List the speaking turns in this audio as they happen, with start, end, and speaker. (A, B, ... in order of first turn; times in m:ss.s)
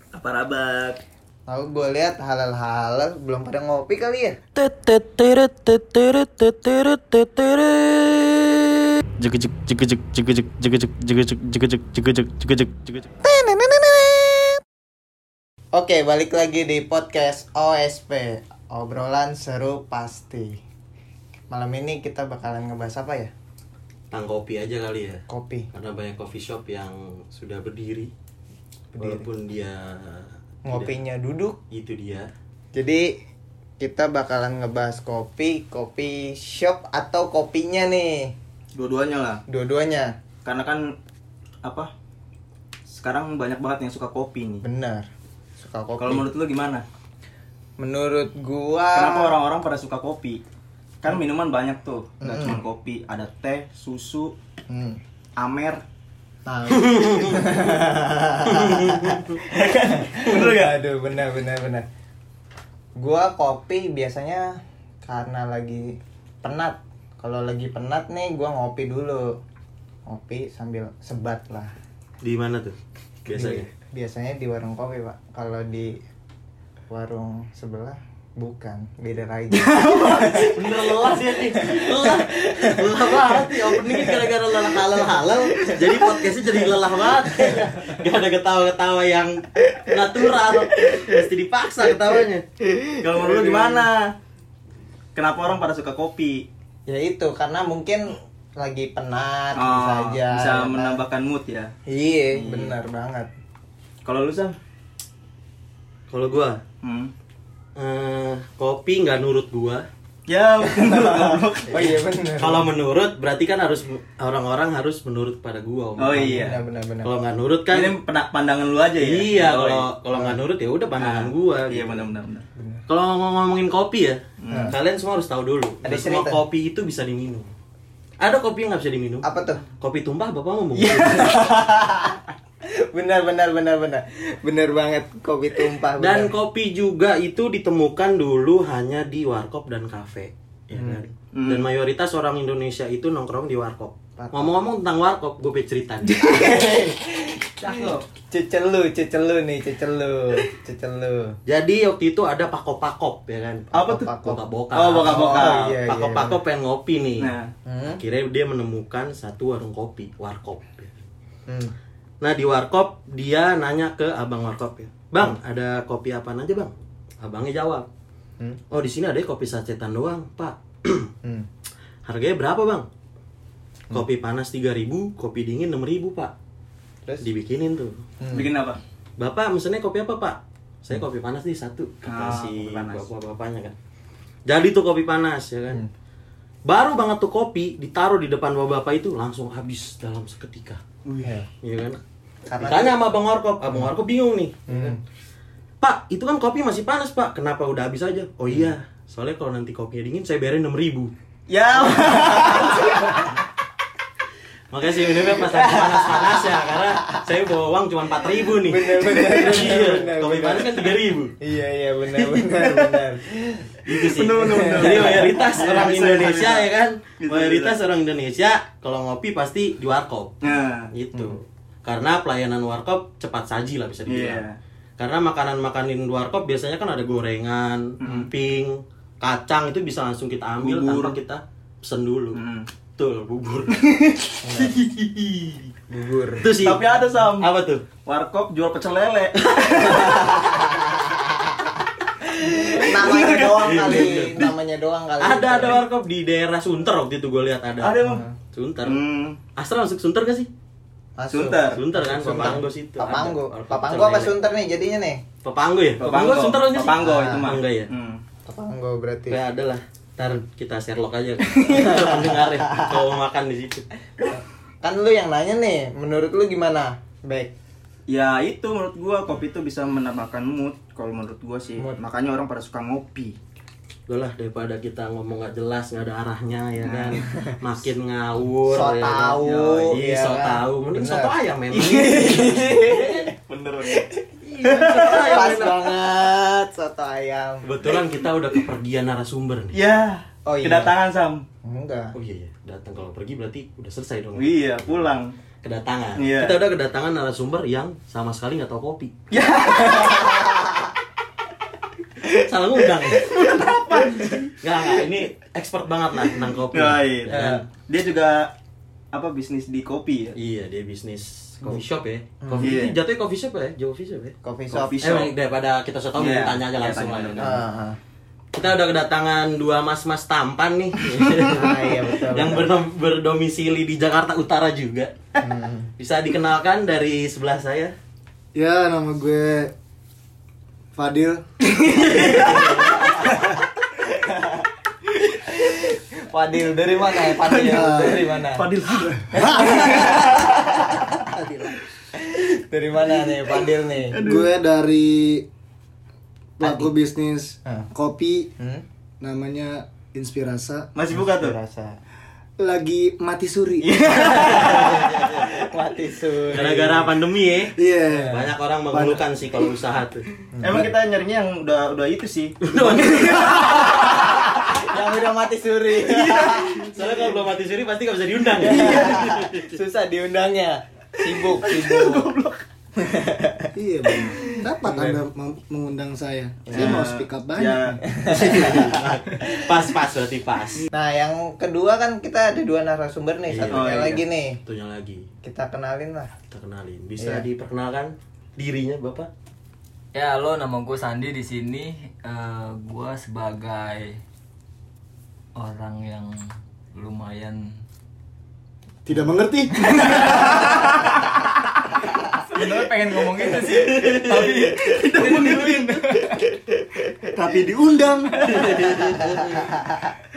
0:00.1-0:01.0 A
0:01.5-0:04.4 B
0:04.5-0:13.1 C
0:13.2-0:14.6 B
0:15.7-0:20.6 B
0:21.5-0:23.3 B
0:24.1-0:28.1 C
0:25.3-0:25.7 B
0:28.9-0:29.3 B
0:29.0-0:30.9 C
0:30.7-0:31.6 B
0:31.7-0:32.3 C
0:32.7-0:33.2 B
0:33.8-0:38.3 B
0:38.7-0:39.4 A
0:39.5-0:40.2 B
0:40.4-0:40.9 A
0:41.6-0:41.9 A
0:42.9-0:44.6 A
0:44.6-0:45.0 B
0:45.6-0:46.3 B
0:46.0-0:46.8 A
0:47.8-0:49.4 B
0:48.9-0:50.4 A
0:51.0-0:54.3 A
0:52.2-0:52.6 B
0:54.7-0:55.0 B
0:55.4-0:55.8 A
0:56.4-1:01.8 B
0:56.7-0:57.5 C
0:58.5-0:59.4 C
0:59.5-1:00.8 A
1:03.0-1:09.4 B
1:10.1-1:11.7 B
1:12.2-1:13.7 C
1:13.3-1:16.0 B
1:16.9-1:20.6 B
1:19.5-1:20.4 A
1:20.2-1:32.4 C
1:21.5-1:26.1 B
1:27.3-1:27.7 B
1:33.0-1:34.1 A
1:33.0-1:33.9 C
1:35.1-1:36.5 A
1:36.8-1:41.0 B
1:39.5-1:41.7 A
1:41.9-1:43.3 B
1:42.3-1:42.8 A
1:44.0-1:44.6 A
1:46.1-1:46.6 C
1:46.8-1:47.1 A
1:47.8-1:49.9 C
1:50.3-1:52.0 A
1:51.1-1:52.7 B
1:52.4-1:58.0 C
1:56.0-1:56.6 A
1:56.1-1:57.1 B
1:57.7-1:59.9 A
1:59.0-2:02.1 C
2:01.0-2:02.5 A
2:02.9-2:07.5 C
2:04.4-2:04.7 A
2:05.8-2:06.4 B
2:08.2-2:11.4 C
2:09.2-2:09.6 B
2:10.8-2:11.9 A
2:12.7-2:16.3 B
2:16.0-2:26.5 C
2:20.7-2:21.0 B
2:21.3-2:21.6 A
2:24.2-2:24.5 B
2:26.1-2:31.4 B
2:27.6-2:28.0 A
2:31.4-2:37.3 C
2:33.7-2:34.1 A
2:33.9-2:34.4 B
2:34.7-2:35.7 A
2:34.9-2:36.4 B
2:37.2-2:37.5 A
2:37.7-2:38.0 B
2:37.9-2:41.0 C
2:41.5-2:41.7 B
2:42.2-2:47.9 C
2:48.7-2:51.1 C
2:52.0-2:52.9 C
2:53.9-2:56.3 C
2:57.2-2:58.0 C
2:58.2-2:58.5 B
2:58.3-2:58.8 A
2:59.2-3:03.7 C
3:02.0-3:03.1 A
3:04.4-3:05.8 C
3:06.6-3:10.8 C
3:11.2-3:11.5 B
3:11.6-3:12.0 C
3:12.5-3:13.0 B
3:12.6-3:14.9 C
3:14.7-3:15.0 B
3:15.8-3:21.1 C
3:21.5-3:23.2 A
3:24.7-3:31.4 C
3:25.3-3:26.5 B
3:28.6-3:33.8 B
3:32.4-3:33.0 A
3:33.8-3:44.4 C
3:33.9-3:36.7 A
3:34.4-3:35.3 B
3:37.2-3:37.8 A
3:40.4-3:40.9 A
3:44.0-3:44.6 A
3:45.0-3:52.4 C
3:48.0-3:48.3 A
3:50.6-3:51.2 A
3:52.3-3:52.7 A
3:52.9-3:53.9 C
3:53.7-3:55.7 A
3:54.4-3:54.8 B
3:55.9-3:56.5 B
3:56.4-3:57.8 C
3:56.5-4:00.6 A
3:59.5-4:00.5 C
4:02.3-4:05.8 B
4:02.5-4:04.2 A
4:03.0-4:04.6 C
4:05.2-4:09.0 C
4:07.8-4:08.2 A
4:08.0-4:08.3 B
4:08.8-4:09.4 A
4:09.5-4:10.5 C
4:11.2-4:15.2 B
4:11.3-4:11.8 A
4:11.7-4:14.4 C
4:15.4-4:17.9 C
4:16.0-4:18.2 A
4:16.8-4:17.5 B
4:18.4-4:19.4 B
4:19.3-4:23.9 C
4:21.5-4:21.8 A
4:21.8-4:22.9 B
4:24.2-4:27.5 B
4:28.1-4:33.4 A
4:34.1-4:43.2 C
4:36.8-4:37.5 B
4:38.6-4:41.3 B
4:39.4-4:39.9 A
4:41.7-4:44.1 A
4:42.4-4:43.2 B
4:44.4-4:46.0 C
4:44.6-4:45.6 A
4:44.8-4:47.9 B
4:47.6-4:49.8 C
4:49.7-4:51.4 A
4:50.4-4:50.9 B
4:51.6-4:52.1 B
4:52.1-4:55.0 C
4:54.3-4:55.3 A
4:55.6-4:59.2 C
4:56.2-4:56.6 A
4:59.3-5:00.8 A
5:02.3-5:03.4 C
5:02.9-5:04.6 A
5:04.6-5:07.6 C
5:06.7-5:08.5 A
5:09.1-5:10.4 A
5:10.4-5:17.6 C
5:12.4-5:12.8 B
5:12.6-5:13.0 A
5:14.4-5:15.2 B
5:14.7-5:15.3 A
5:16.2-5:17.6 A
5:17.4-5:18.0 B
5:18.5-5:25.1 C
5:21.5-5:22.7 B
5:25.4-5:25.9 B
5:26.0-5:27.9 C
5:28.5-5:29.7 D
5:30.9-5:31.6 D
5:32.2-5:32.9 C
5:32.6-5:33.5 B
5:34.0-5:34.7 B
5:35.3-5:38.7 B
5:37.3-5:40.6 A
5:37.6-5:38.4 D
5:39.0-5:40.2 D
5:39.3-5:41.3 B
5:41.2-5:41.8 D
5:42.2-5:44.2 B
5:44.1-5:44.5 A
5:44.2-5:45.5 D
5:46.6-5:48.5 D
5:46.6-5:46.9 B
5:48.6-5:48.8 B
5:49.2-5:50.9 D
5:50.9-5:51.6 A
5:51.1-5:52.0 B
5:52.6-5:54.5 D
5:53.8-5:55.1 A
5:54.1-5:55.5 C
5:54.7-5:57.1 B
5:56.5-6:00.3 C
5:57.7-5:59.2 D
6:00.5-6:00.9 B
6:00.6-6:04.5 A
6:02.6-6:04.4 C
6:04.5-6:07.0 B
6:06.0-6:07.2 A
6:06.4-6:09.8 C
6:08.6-6:09.3 A
6:08.7-6:12.3 B
6:11.2-6:12.6 A
6:13.0-6:15.2 B
6:13.7-6:18.0 D
6:16.7-6:17.0 B
6:16.7-6:18.0 A
6:18.0-6:19.5 B
6:18.2-6:20.9 C
6:20.9-6:24.6 B
6:23.5-6:25.3 C
6:23.7-6:24.2 A
6:25.4-6:26.3 B
6:26.5-6:29.3 C
6:27.2-6:27.4 B
6:30.1-6:34.2 E
6:35.5-6:37.8 E
6:39.0-6:40.5 D
6:40.0-6:40.6 E
6:42.5-6:46.4 E
6:43.6-6:46.4 A
6:47.3-6:48.6 D
6:48.3-6:48.9 E
6:48.5-6:49.7 C